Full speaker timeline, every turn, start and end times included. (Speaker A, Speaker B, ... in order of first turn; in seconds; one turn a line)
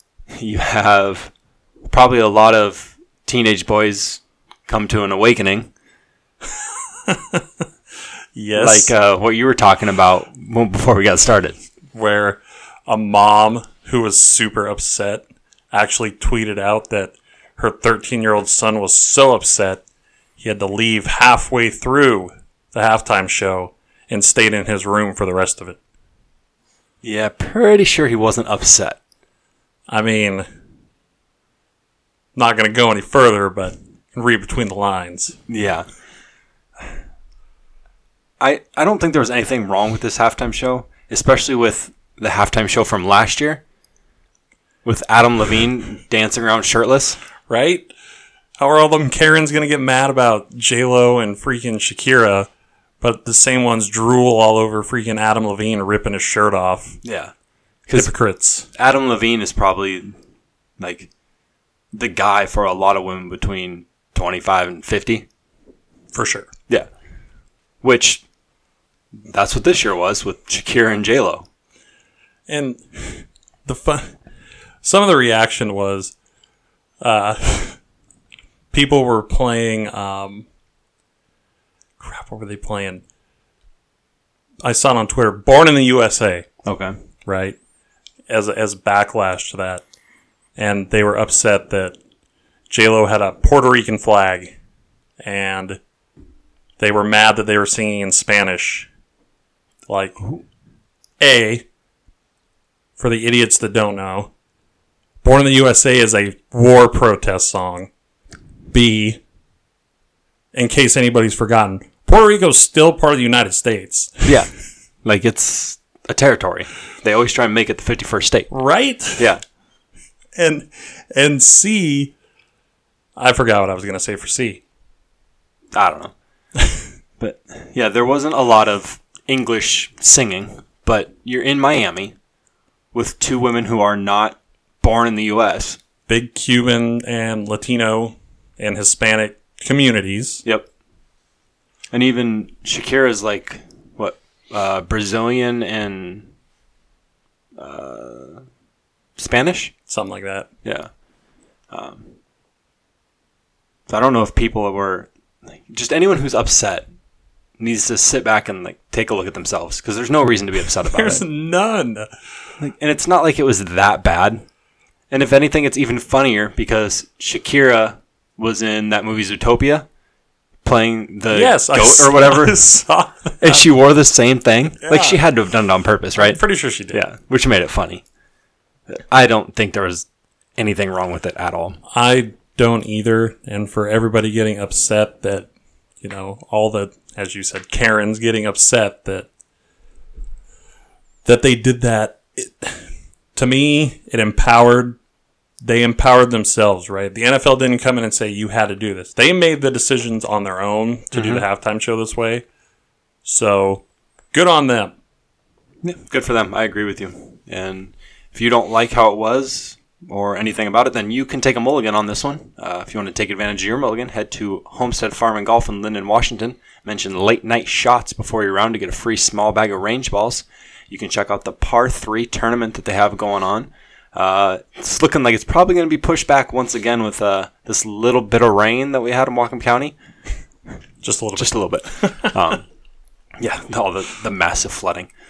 Speaker A: 0.3-1.3
Speaker A: 1.9-5.7
Speaker B: 7.1-7.4
Speaker B: 8.3-8.9
Speaker A: 8.5-11.6
Speaker B: 11.9-19.8
Speaker B: 20.4-25.8
Speaker A: 27.0-29.0
Speaker B: 29.9-30.4
Speaker B: 32.3-35.4
Speaker A: 35.5-35.9
Speaker A: 38.4-43.6
Speaker A: 44.8-47.2
Speaker B: 47.5-47.9
Speaker B: 48.6-52.5
Speaker B: 53.0-57.0
Speaker A: 57.0-57.3
Speaker A: 57.9-58.1
Speaker B: 57.9-58.7
Speaker A: 58.7-60.1
Speaker A: 60.8-61.1
Speaker A: 61.9-65.2
Speaker B: 66.1-66.5
Speaker A: 67.8-68.2
Speaker A: 69.2-71.5
Speaker B: 72.5-74.2
Speaker B: 74.8-76.1
Speaker B: 77.0-77.8
Speaker B: 78.7-80.5
Speaker B: 82.0-83.0
Speaker B: 84.6-86.5
Speaker A: 86.6-86.9
Speaker B: 87.2-87.6
Speaker B: 88.3-89.8
Speaker B: 90.5-92.0
Speaker B: 92.7-94.5
Speaker B: 95.2-95.8
Speaker B: 96.8-98.9
Speaker B: 99.9-100.3
Speaker B: 101.2-101.7
Speaker B: 103.0-104.3
Speaker B: 105.2-107.9
Speaker B: 108.7-109.2
Speaker B: 110.5-114.3
Speaker A: 115.0-118.5
Speaker B: 118.5-119.2
Speaker B: 120.3-122.1
Speaker B: 123.2-124.6
Speaker A: 125.7-126.1
Speaker A: 127.2-132.1
Speaker A: 132.9-135.8
Speaker B: 136.1-140.4
Speaker A: 141.9-146.3
Speaker A: 147.6-148.4
Speaker A: 149.2-149.7
Speaker B: 149.9-150.5
Speaker A: 150.6-150.9
Speaker A: 151.7-152.1
Speaker A: 153.9-156.9
Speaker A: 157.6-161.2
Speaker B: 160.9-162.1
Speaker A: 162.6-164.4
Speaker A: 165.1-169.9
Speaker A: 170.6-172.6
Speaker B: 171.3-173.7
Speaker A: 173.4-176.4
Speaker B: 174.8-175.2
Speaker B: 176.2-177.0
Speaker A: 176.9-178.0
Speaker A: 178.9-180.1
Speaker A: 180.6-181.8
Speaker B: 181.9-185.5
Speaker B: 186.0-189.3
Speaker B: 191.2-195.0
Speaker B: 195.6-202.4
Speaker A: 201.1-201.4
Speaker B: 203.2-204.9
Speaker A: 205.8-229.9
Speaker B: 231.0-232.4
Speaker A: 231.4-232.6
Speaker A: 233.4-235.1